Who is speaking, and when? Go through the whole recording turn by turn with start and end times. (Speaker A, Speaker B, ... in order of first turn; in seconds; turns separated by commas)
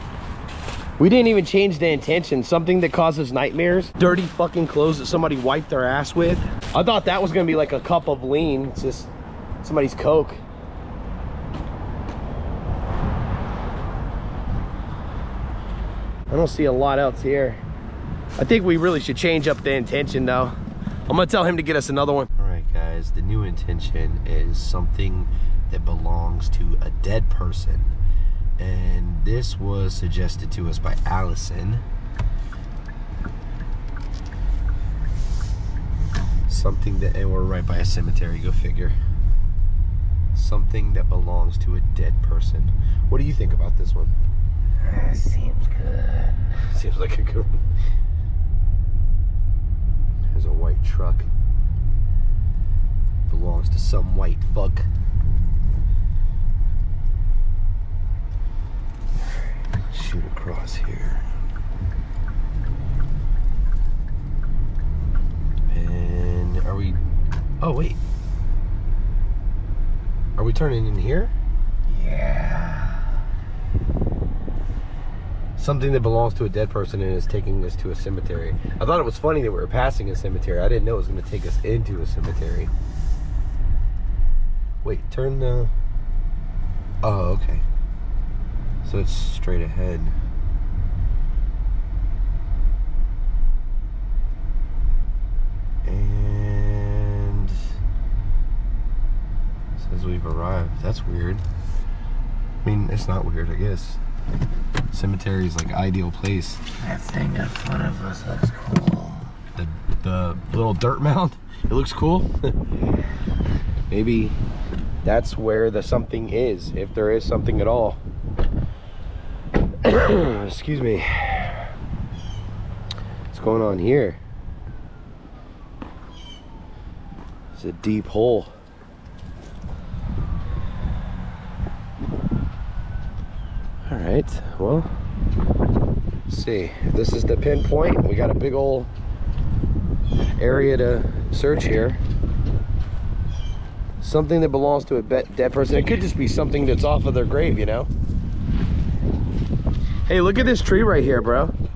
Speaker A: 1.0-9.1, Speaker A: 9.6-10.4, Speaker A: 16.3-17.6, Speaker A: 18.4-20.6, Speaker A: 21.1-27.9, Speaker A: 28.6-31.8, Speaker A: 36.5-39.0, Speaker A: 40.3-44.1, Speaker B: 44.8-46.6, Speaker A: 46.7-47.6, Speaker A: 50.3-51.3, Speaker A: 53.3-54.9, Speaker A: 59.9-61.2, Speaker A: 65.7-67.0, Speaker A: 67.6-68.0, Speaker A: 70.4-71.3, Speaker B: 71.9-73.1, Speaker A: 75.6-82.7, Speaker A: 84.8-85.7, Speaker A: 87.0-87.6, Speaker A: 88.8-90.2, Speaker A: 95.8-97.6, Speaker A: 99.8-101.4, Speaker A: 102.6-104.0, Speaker A: 104.9-106.6, Speaker B: 106.8-109.3, Speaker A: 109.5-112.5, Speaker A: 113.9-114.4, Speaker A: 115.0-118.0, Speaker A: 119.8-121.6, Speaker A: 123.3-124.2, Speaker A: 127.5-128.5, Speaker A: 133.9-134.9, Speaker A: 136.3-138.9, Speaker A: 140.4-142.0, Speaker A: 144.0-147.9, Speaker A: 150.1-151.5